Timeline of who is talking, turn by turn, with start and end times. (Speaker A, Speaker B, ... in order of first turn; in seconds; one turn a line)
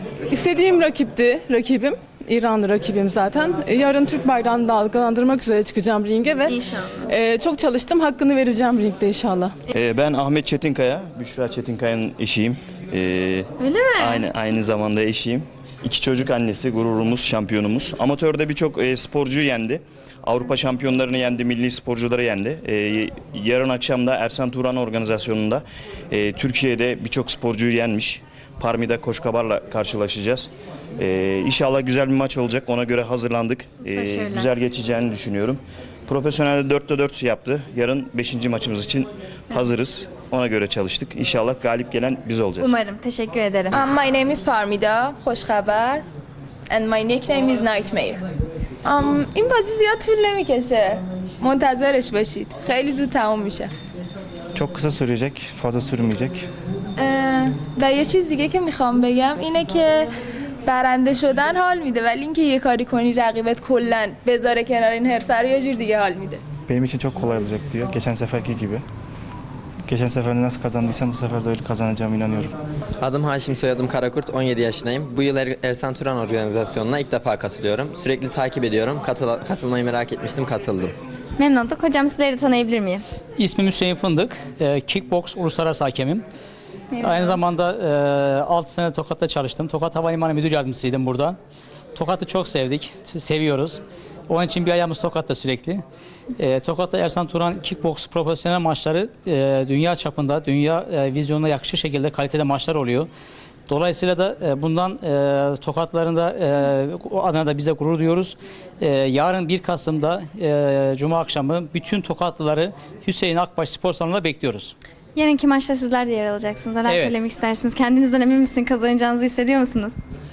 Speaker A: 0.3-6.6
Speaker B: 6.5-7.0
Speaker A: 7.1-9.6
Speaker C: 9.7-13.5
Speaker B: 13.6-14.3
Speaker C: 14.0-42.8
Speaker B: 33.9-34.5
Speaker B: 42.6-43.8
Speaker D: 43.8-46.0
Speaker D: 46.7-48.2
Speaker D: 48.9-53.7
Speaker E: 54.5-56.5
Speaker D: 57.0-60.1
Speaker D: 60.6-66.4
Speaker E: 66.7-68.8
Speaker E: 69.9-72.5
Speaker F: 73.0-81.0
Speaker B: 81.4-83.0
Speaker G: 83.4-86.2
Speaker B: 86.9-87.4
Speaker G: 87.0-91.4
Speaker G: 91.9-95.8
Speaker G: 96.4-103.1
Speaker G: 103.7-114.7
Speaker B: 115.2-120.0
Speaker G: 116.9-117.2